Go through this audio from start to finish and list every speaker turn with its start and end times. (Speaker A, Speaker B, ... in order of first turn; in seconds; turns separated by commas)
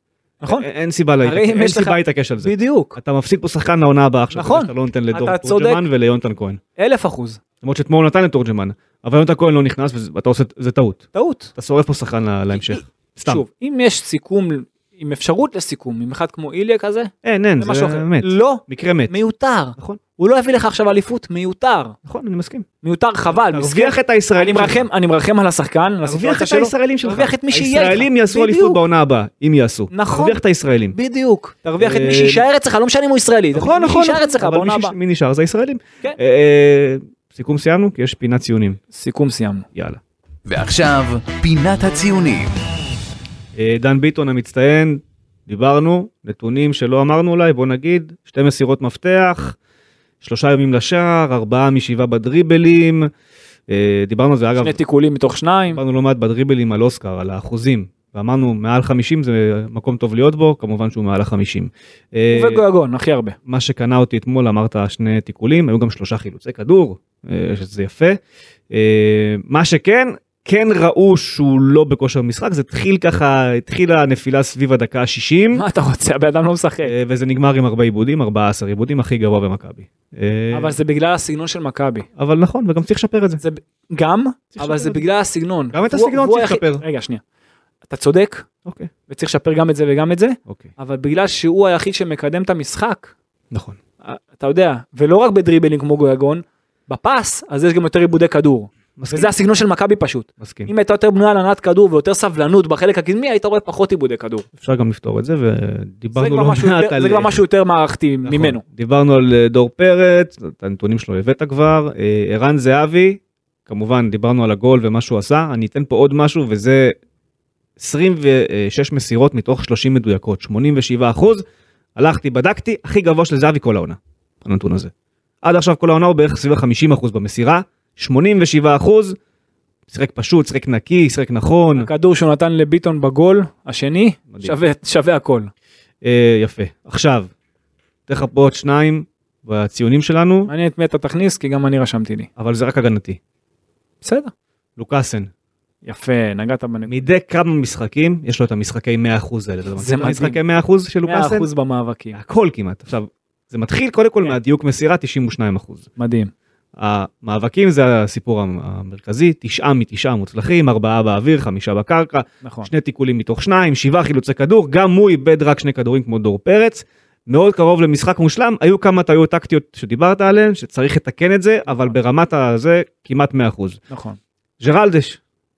Speaker A: 0.4-0.7, Speaker B: 0.5-6.6, Speaker A: 1.2-3.0, Speaker A: 4.3-5.8, Speaker A: 6.8-7.4, Speaker B: 7.6-13.4, Speaker A: 11.1-11.5, Speaker A: 13.2-22.0, Speaker B: 17.2-19.1, Speaker B: 22.1-22.7, Speaker A: 22.8-28.8, Speaker B: 23.3-24.9, Speaker B: 26.1-31.0, Speaker A: 29.9-30.4, Speaker A: 30.9-35.0, Speaker B: 31.8-32.5, Speaker B: 33.5-38.8, Speaker A: 38.9-39.7, Speaker B: 39.8-40.0, Speaker C: 40.5-42.5, Speaker B: 43.5-49.6, Speaker B: 50.2-53.1, Speaker B: 53.7-54.8, Speaker A: 54.6-55.8, Speaker B: 55.7-62.6, Speaker A: 62.3-63.4, Speaker B: 63.5-68.2, Speaker B: 68.7-75.6, Speaker A: 75.5-76.9, Speaker B: 76.8-80.8, Speaker A: 80.5-82.1, Speaker B: 82.2-83.4, Speaker A: 83.4-87.2, Speaker B: 84.5-85.0, Speaker B: 85.7-86.8, Speaker A: 87.9-88.5, Speaker B: 88.7-88.9, Speaker A: 89.1-93.1, Speaker B: 90.5-90.7, Speaker B: 93.5-93.8, Speaker A: 94.0-104.5, Speaker B: 99.0-99.3, Speaker B: 100.4-100.7, Speaker B: 104.6-107.4, Speaker A: 106.2-108.6, Speaker B: 108.2-117.0, Speaker B: 117.8-124.9, Speaker B: 125.4-129.2, Speaker B: 129.9-131.9, Speaker A: 131.8-135.5, Speaker B: 136.0-137.3, Speaker B: 138.1-140.5, Speaker A: 140.5-142.3, Speaker B: 142.4-143.2, Speaker A: 144.0-144.3, Speaker B: 144.8-145.3, Speaker A: 145.8-146.9, Speaker B: 146.9-151.5, Speaker A: 149.8-150.4, Speaker A: 151.1-152.2, Speaker B: 152.1-155.9, Speaker A: 156.0-156.3, Speaker B: 156.8-173.8, Speaker A: 162.4-162.7, Speaker A: 171.7-171.9, Speaker A: 173.9-174.2, Speaker B: 174.6-175.2